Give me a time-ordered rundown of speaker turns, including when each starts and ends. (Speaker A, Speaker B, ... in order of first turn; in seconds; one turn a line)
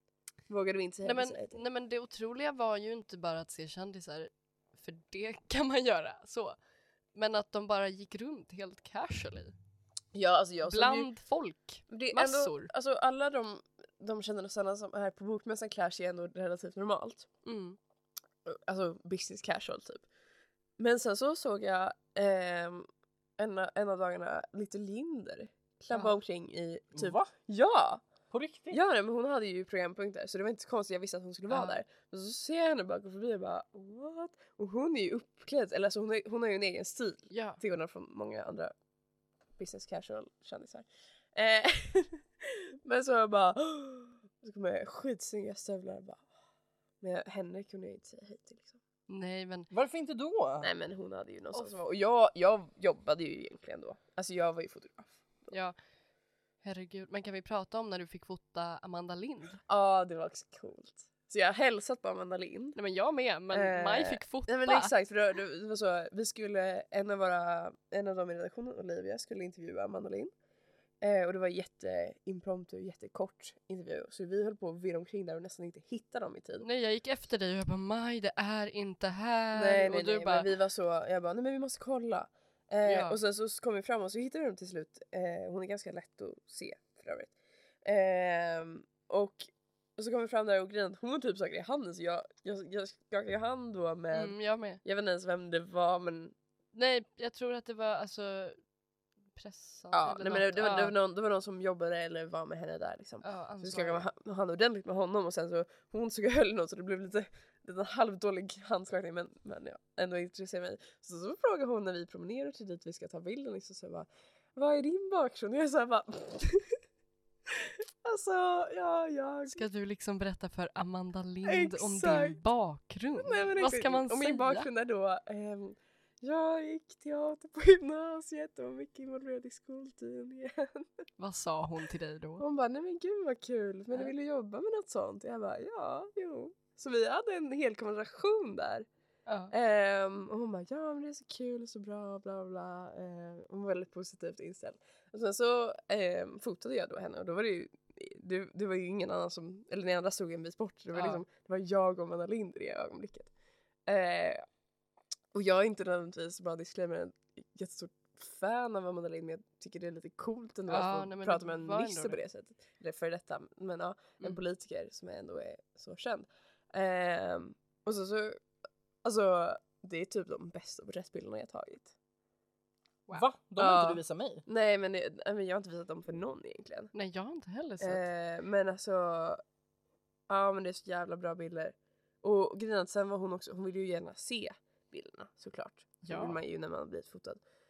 Speaker A: 0.5-1.6
Speaker B: 1.0-6.6
Speaker B: 7.2-9.5
Speaker A: 10.1-11.1
Speaker B: 10.7-12.7
Speaker A: 11.9-17.3
Speaker B: 17.4-17.8
Speaker A: 18.4-20.1
Speaker A: 20.8-28.1
Speaker C: 26.9-27.3
Speaker C: 28.3-28.8
Speaker A: 28.7-38.7
Speaker B: 31.5-31.8
Speaker B: 37.3-37.6
Speaker A: 39.6-46.2
Speaker A: 47.0-48.8
Speaker B: 49.1-49.7
Speaker C: 49.7-50.7
Speaker A: 50.6-55.5
Speaker B: 55.5-55.8
Speaker B: 56.6-59.6
Speaker A: 59.7-62.8
Speaker B: 62.8-64.9
Speaker A: 63.5-70.3
Speaker A: 71.0-76.7
Speaker B: 76.6-80.5
Speaker A: 79.5-96.3
Speaker B: 82.8-83.2
Speaker B: 94.1-94.8
Speaker B: 96.7-98.6
Speaker B: 99.4-100.9
Speaker A: 99.9-116.8
Speaker B: 103.2-104.0
Speaker A: 118.0-119.7
Speaker B: 119.5-124.7
Speaker A: 121.5-122.4
Speaker A: 123.2-130.9
Speaker B: 131.2-132.4
Speaker A: 132.4-138.9
Speaker B: 139.3-139.5
Speaker A: 139.5-153.3
Speaker B: 150.9-151.2
Speaker A: 153.9-154.4
Speaker A: 155.3-168.4
Speaker B: 160.7-162.2
Speaker A: 169.0-171.9
Speaker C: 173.1-174.4
Speaker A: 173.6-176.9
Speaker B: 176.9-178.1
Speaker A: 177.8-179.4
Speaker A: 180.3-187.4
Speaker B: 186.1-186.4